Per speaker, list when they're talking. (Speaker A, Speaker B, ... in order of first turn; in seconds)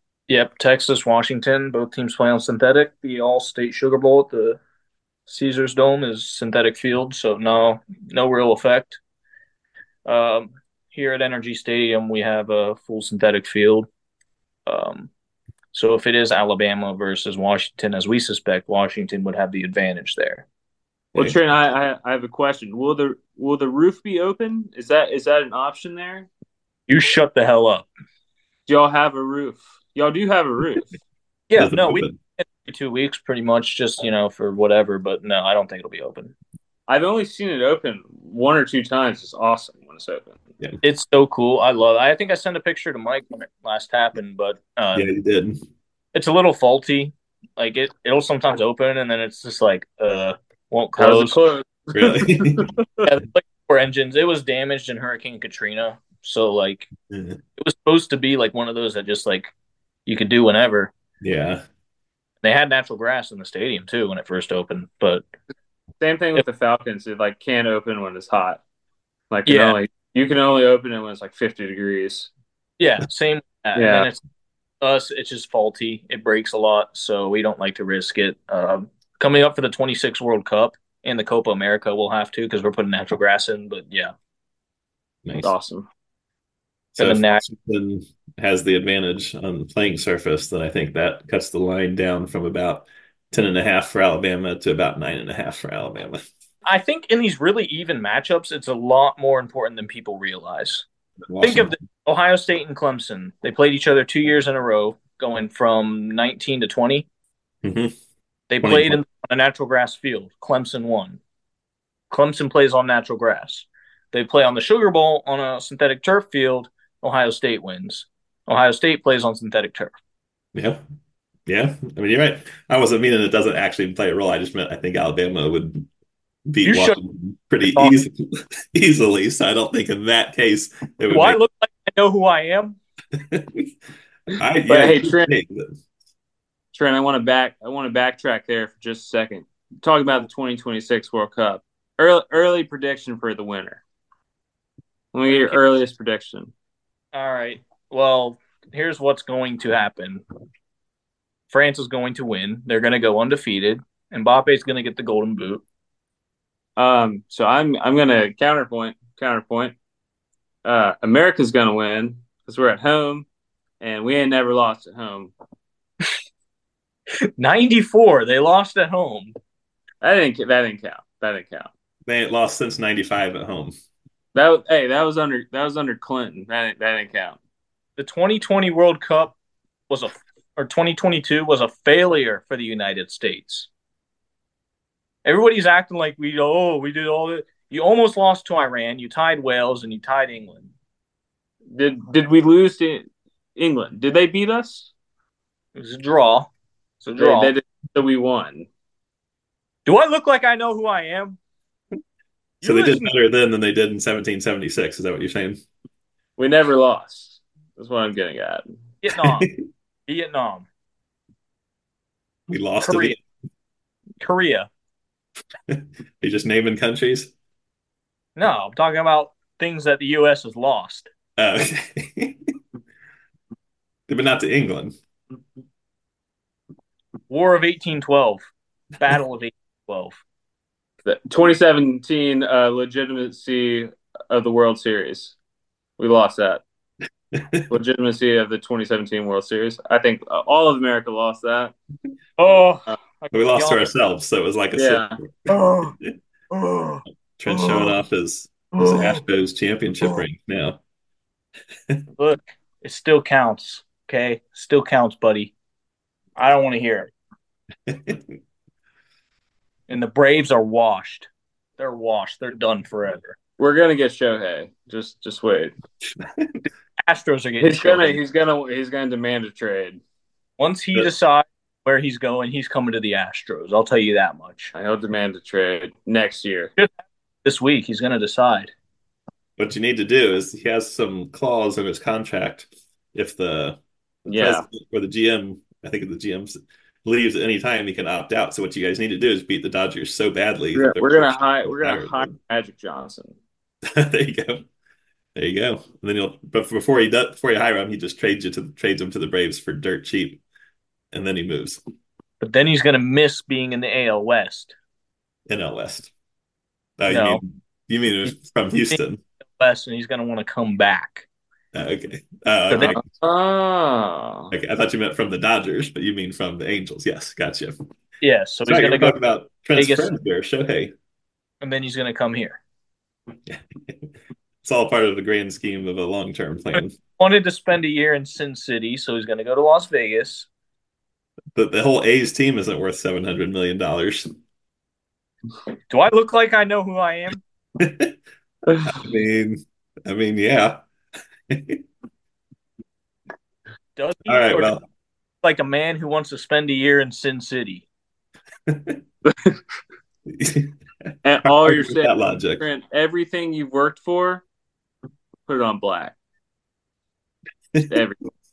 Speaker A: 0.3-4.6, 5.3-9.0, 10.1-13.9, 14.7-15.1, 15.7-20.4, 26.9-27.9, 31.5-36.3, 40.8-45.1, 46.1-51.4, 53.0-56.9, 57.6-59.5, 60.0-60.9, 62.4-65.2, 69.5-69.8, 72.8-74.2, 74.8-84.1, 87.0-87.4, 96.6-100.8, 101.4-107.1, 108.5-111.2, 112.1-119.9, 126.6-127.0, 131.1-132.8, 145.3-145.6, 147.1-150.2, 151.5-155.6, 167.4-169.3, 178.0-179.3, 179.9-183.7, 185.2-190.7, 195.8-196.5, 197.0-197.5, 199.8-201.4, 202.6-203.1, 209.0-209.5, 210.1-210.7, 212.8-213.2, 214.2-214.7, 218.3-221.1, 227.3-228.4, 229.0-230.2, 242.4-243.8, 245.5-245.9, 246.5-247.9, 248.7-249.2, 252.2-255.5, 256.4-257.1, 259.9-263.4, 267.1-268.2, 270.6-274.7, 276.8-278.7, 302.4-304.7, 307.1-307.4, 309.6-311.3, 312.7-312.9, 318.2-319.2, 319.8-320.1, 321.6-322.6, 326.7-330.5, 335.9-337.4, 344.0-344.8, 345.4-347.9
Speaker B: 21.1-26.3, 28.7-30.9, 36.9-40.4, 51.0-53.0, 66.0-68.6, 69.3-72.3, 73.8-74.1, 85.4-85.9, 134.7-135.3, 136.7-143.8, 145.1-146.5, 156.8-159.7, 160.6-163.3, 163.8-165.3, 170.0-171.7, 174.3-177.4, 191.7-193.0, 193.6-194.9, 197.1-198.7, 206.4-208.7, 231.0-235.3, 236.0-236.6, 237.7-241.7, 244.7-245.2, 263.6-265.7, 267.6-270.0, 274.7-276.7, 284.3-284.6, 290.7-293.4, 312.7-314.5, 338.7-339.1, 349.2-349.6, 351.2-354.4, 355.5-356.1, 357.9-358.2
Speaker C: 31.6-32.1, 44.9-45.6, 51.9-52.7, 57.1-57.4, 61.2-61.6, 85.2-85.5, 87.0-96.2, 101.3-101.7, 107.6-107.9, 108.6-109.0, 120.5-120.8, 121.5-125.9, 126.5-131.4, 133.1-133.7, 134.3-135.8, 172.1-173.7, 202.6-205.6, 209.1-209.5, 212.5-213.2, 215.7-217.3, 221.4-222.5, 224.1-224.9, 237.3-237.7, 243.3-246.1, 247.4-250.8, 257.9-258.2, 266.1-266.6, 279.6-292.3, 293.9-294.7, 295.3-300.4, 301.1-301.8, 305.5-306.1, 307.0-309.2, 311.7-313.0, 314.5-317.7, 318.6-320.9, 323.4-324.1, 324.6-326.9, 331.5-334.3, 337.8-338.1, 338.8-340.8, 341.5-341.8, 344.3-344.8, 348.7-349.0, 350.3-350.7, 351.4-352.6, 357.7-358.0